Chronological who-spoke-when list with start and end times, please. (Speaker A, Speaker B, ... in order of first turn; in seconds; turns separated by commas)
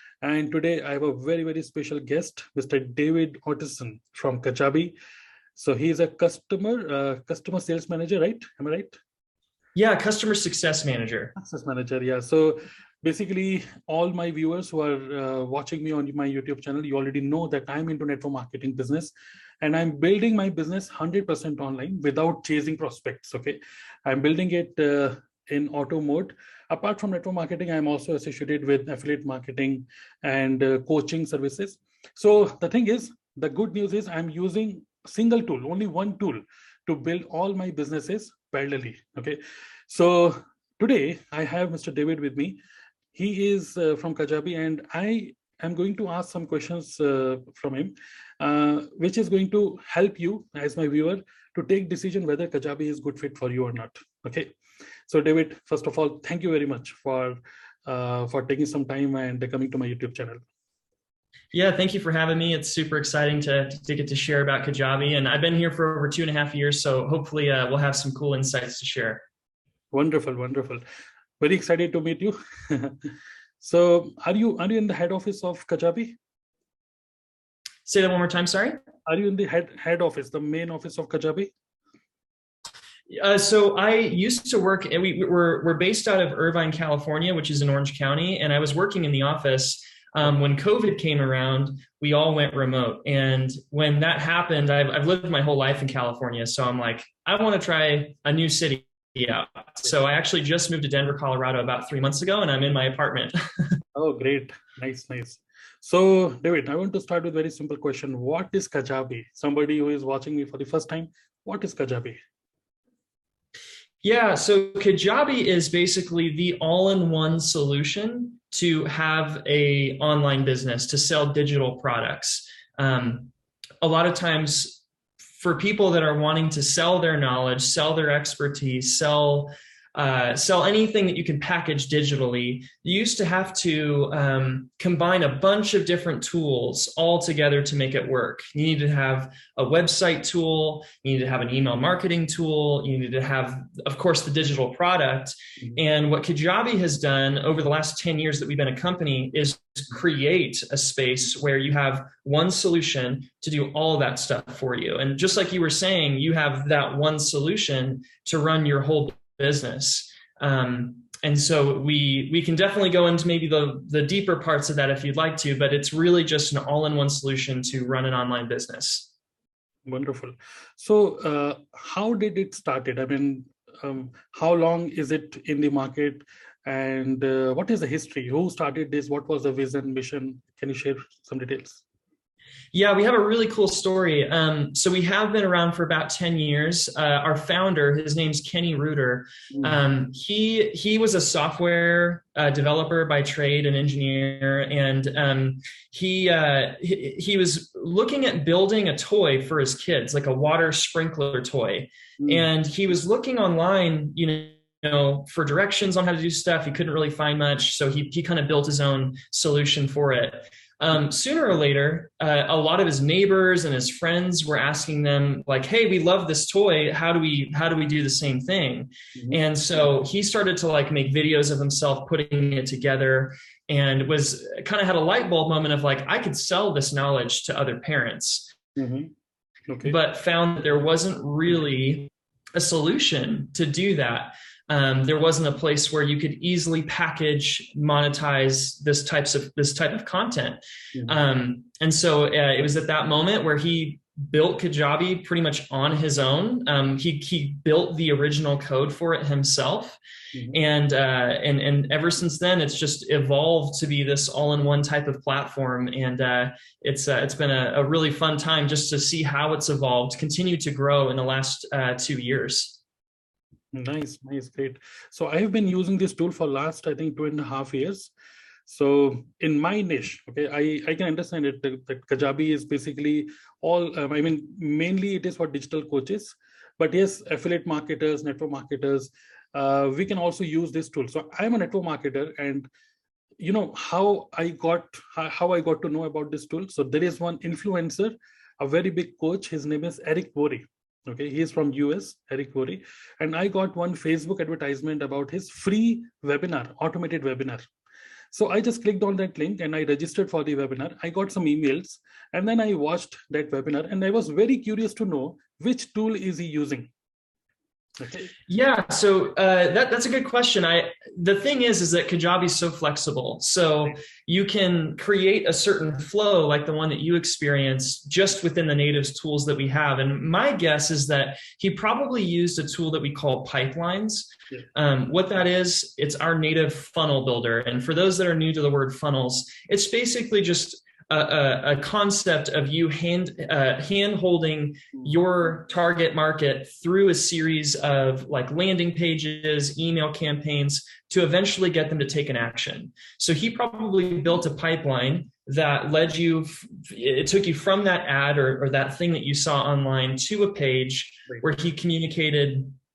Speaker A: 0.2-5.0, Speaker A: 5.6-9.0, Speaker B: 9.8-11.3, Speaker A: 11.4-42.6, Speaker A: 43.1-54.5, Speaker A: 55.1-60.4, Speaker B: 61.5-69.2, Speaker A: 69.9-70.8, Speaker A: 71.4-73.1, Speaker A: 73.6-76.2, Speaker B: 77.8-78.8, Speaker A: 79.1-81.5, Speaker B: 83.1-103.8, Speaker A: 104.0-112.2, Speaker B: 114.0-124.8, Speaker B: 125.4-169.1, Speaker A: 169.9-181.8, Speaker B: 182.7-228.6, Speaker A: 189.5-189.8, Speaker A: 202.2-202.5, Speaker A: 228.8-229.1, Speaker A: 229.7-230.0, Speaker B: 229.8-250.0, Speaker A: 240.9-241.2, Speaker A: 250.3-250.6, Speaker B: 250.5-262.8, Speaker A: 263.7-268.1, Speaker A: 268.7-282.7, Speaker A: 283.4-297.7, Speaker A: 298.3-306.9, Speaker A: 308.0-308.3, Speaker B: 308.5-352.8